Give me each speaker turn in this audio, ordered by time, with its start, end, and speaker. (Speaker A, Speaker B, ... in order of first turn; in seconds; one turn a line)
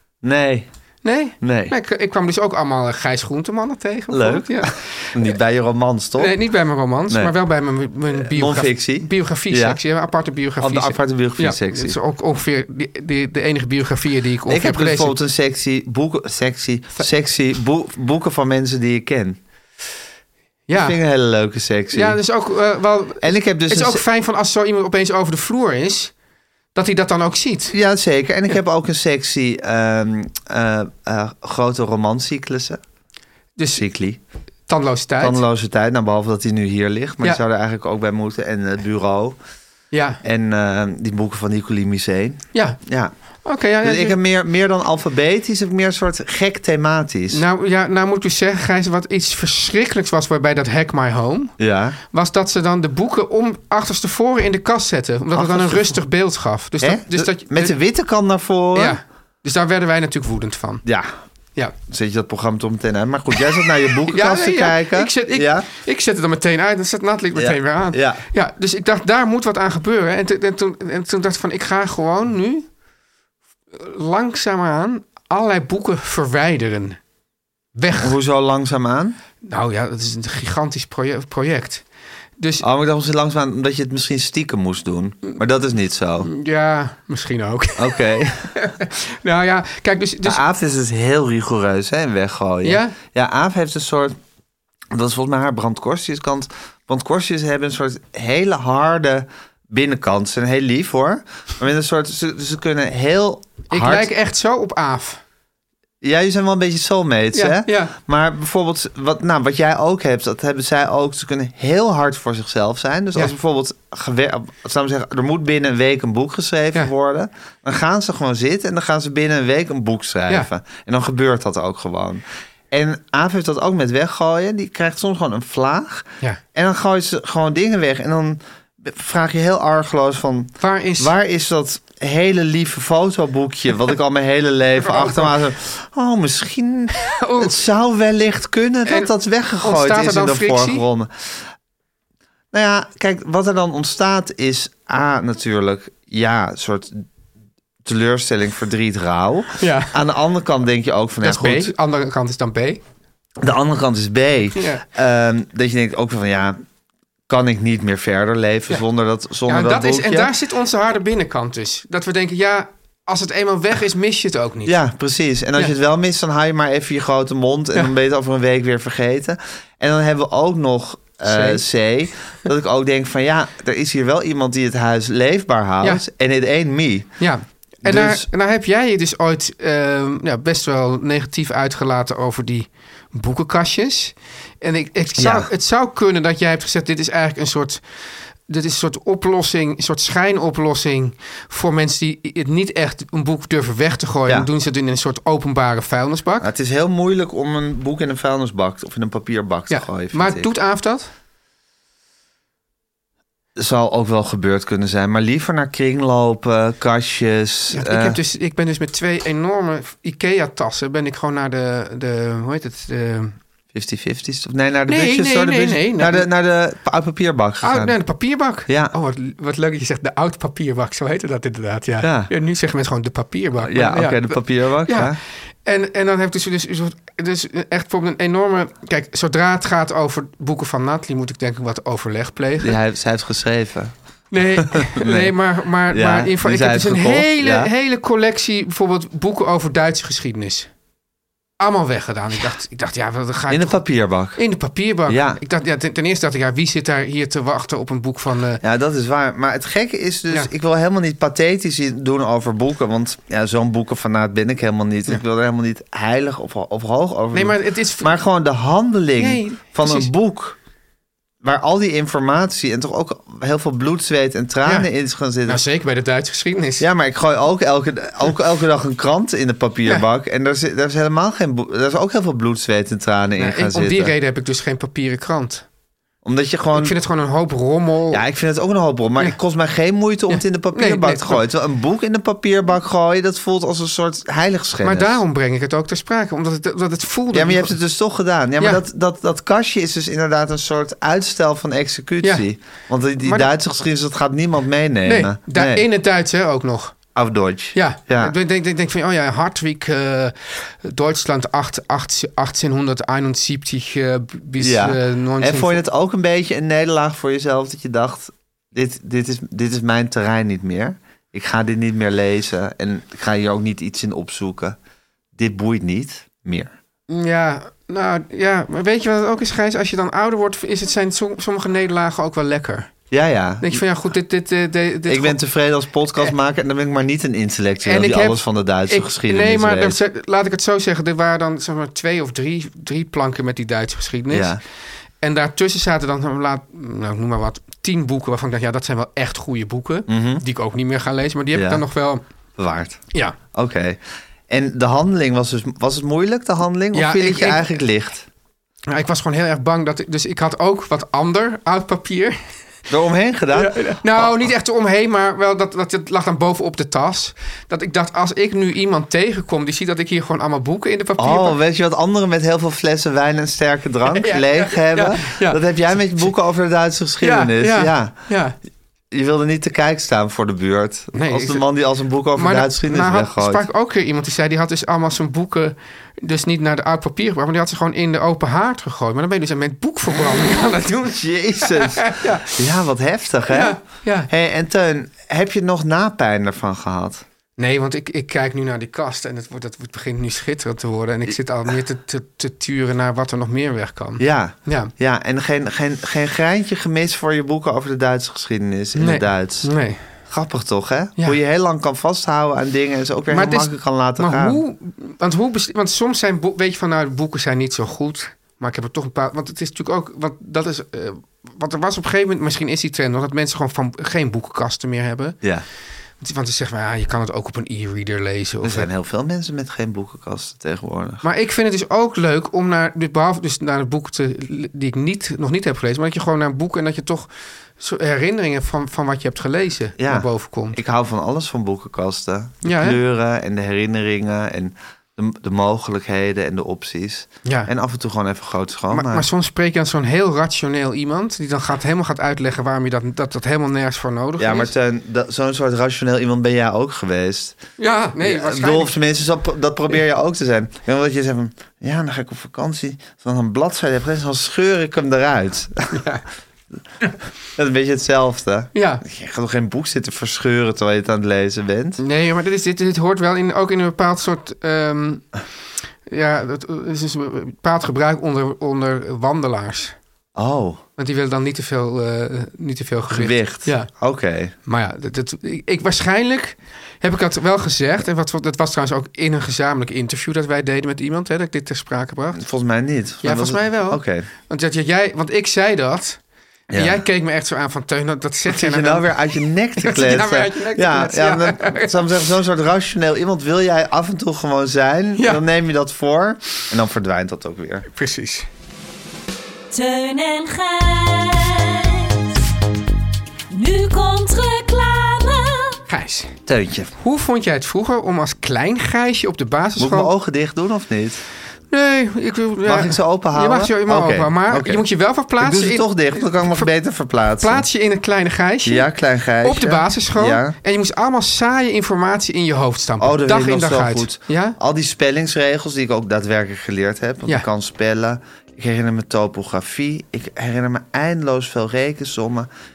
Speaker A: 0.2-0.7
Speaker B: 1.0-5.3
Speaker A: 1.4-1.7
Speaker A: 4.1-6.3
Speaker B: 6.2-15.2
Speaker A: 8.1-9.8
Speaker A: 10.6-12.0
Speaker A: 14.5-19.4
Speaker B: 20.7-21.0
Speaker A: 20.7-22.2
Speaker B: 21.9-26.1
Speaker A: 23.2-24.0
Speaker B: 26.8-27.7
Speaker A: 27.7-32.8
Speaker B: 33.6-33.8
Speaker A: 33.7-34.2
Speaker B: 34.7-35.4
Speaker A: 35.2-39.4
Speaker B: 39.9-40.2
Speaker A: 40.2-43.1
Speaker B: 43.4-44.2
Speaker A: 43.8-47.4
Speaker B: 47.3-51.5
Speaker A: 51.6-52.0
Speaker B: 52.1-57.7
Speaker A: 55.3-56.0
Speaker A: 56.8-59.0
Speaker B: 58.8-60.8
Speaker A: 60.9-61.1
Speaker A: 61.9-65.7
Speaker B: 64.1-72.7
Speaker A: 67.4-68.2
Speaker B: 73.7-77.0
Speaker B: 77.8-78.2
Speaker A: 78.0-79.2
Speaker B: 79.4-81.8
Speaker B: 82.4-82.6
Speaker A: 82.6-86.3
Speaker B: 86.2-88.0
Speaker A: 87.8-88.5
Speaker B: 88.5-90.4
Speaker A: 90.2-94.2
Speaker B: 92.6-93.0
Speaker A: 94.9-104.1
Speaker B: 103.7-105.2
Speaker A: 106.0-141.4
Speaker B: 107.3-108.0
Speaker B: 130.6-131.1
Speaker B: 134.8-135.3
Speaker B: 137.0-137.6
Speaker B: 138.9-140.8
Speaker A: 142.5-147.1
Speaker A: 147.8-151.7
Speaker B: 149.6-149.9
Speaker B: 151.2-152.8
Speaker A: 153.4-156.6
Speaker B: 154.6-154.8
Speaker A: 157.3-160.3
Speaker B: 159.5-164.8
Speaker A: 164.7-177.1
Speaker B: 171.2-171.6
Speaker B: 177.2-187.8
Speaker A: 177.8-178.3
Speaker A: 185.2-185.5
Speaker B: 188.5-196.5
Speaker A: 196.4-200.5
Speaker B: 199.7-201.1
Speaker A: 203.6-208.2
Speaker B: 207.7-213.4
Speaker A: 213.7-217.9
Speaker B: 214.9-216.3
Speaker B: 217.6-232.8
Speaker A: 218.7-218.9
Speaker A: 222.0-222.3
Speaker A: 223.6-225.2
Speaker A: 232.6-233.9
Speaker B: 234.3-240.7
Speaker A: 234.6-235.3
Speaker A: 235.9-237.7
Speaker B: 241.6-243.8
Speaker A: 243.5-244.4
Speaker B: 244.3-248.6
Speaker A: 245.1-245.4
Speaker A: 248.6-260.6
Speaker B: 257.3-258.1
Speaker B: 259.2-260.1
Speaker A: 261.4-265.6
Speaker B: 265.5-266.9
Speaker A: 266.8-274.1
Speaker B: 273.4-275.6
Speaker A: 276.2-277.0
Speaker B: 276.7-278.2
Speaker A: 278.1-285.2
Speaker B: 280.3-281.4
Speaker B: 284.8-287.8
Speaker A: 287.3-295.9
Speaker B: 293.2-293.5
Speaker B: 295.1-296.9
Speaker A: 297.1-298.4
Speaker B: 297.8-305.8
Speaker A: 304.6-314.8
Speaker A: 315.4-316.7
Speaker B: 317.1-322.9
Speaker A: 323.1-323.8
Speaker B: 323.6-325.4
Speaker A: 325.1-330.0
Speaker B: 327.8-334.6
Speaker A: 334.3-334.6
Speaker B: 335.2-342.2
Speaker A: 340.1-340.4
Speaker A: 341.5-341.8
Speaker A: 342.6-348.3
Speaker B: 346.9-347.6
Speaker B: 348.9-352.4
Speaker A: 352.9-354.5
Speaker B: 353.5-361.6
Speaker A: 361.2-368.2
Speaker B: 364.1-366.3
Speaker B: 367.2-368.6
Speaker A: 369.1-373.7
Speaker B: 371.1-371.6
Speaker B: 372.4-382.5
Speaker A: 381.1-387.2
Speaker B: 383.5-384.3
Speaker B: 387.6-394.9
Speaker A: 394.2-399.7
Speaker B: 399.0-400.0
Speaker A: 400.3-404.6
Speaker B: 403.3-415.4
Speaker B: 416.2-418.9
Speaker A: 418.6-421.2
Speaker B: 421.2-430.8
Speaker A: 430.0-439.3
Speaker B: 432.6-433.0
Speaker B: 438.9-444.7
Speaker A: 444.4-447.6
Speaker B: 447.8-448.9
Speaker A: 448.2-456.0
Speaker B: 455.9-456.2
Speaker A: 457.6-462.0
Speaker B: 458.7-459.0
Speaker B: 462.0-465.3
Speaker B: 466.1-470.0
Speaker A: 470.4-470.8
Speaker B: 471.0-473.9
Speaker A: 473.1-474.5
Speaker B: 474.7-482.4
Speaker A: 482.3-484.3
Speaker B: 483.2-486.2
Speaker A: 486.7-487.0
Speaker B: 486.7-489.1
Speaker A: 488.5-497.9
Speaker B: 489.8-492.1
Speaker B: 495.2-495.4
Speaker B: 497.9-498.5
Speaker C: 499.7-502.4
Speaker C: 503.5-505.8
Speaker B: 505.9-506.4
Speaker A: 506.5-506.9
Speaker B: 507.0-510.1
Speaker A: 509.8-511.2
Speaker B: 511.7-516.7
Speaker A: 512.6-514.9
Speaker A: 515.4-517.7
Speaker B: 517.4-518.9
Speaker A: 518.6-520.5
Speaker B: 519.4-524.6
Speaker A: 523.0-532.5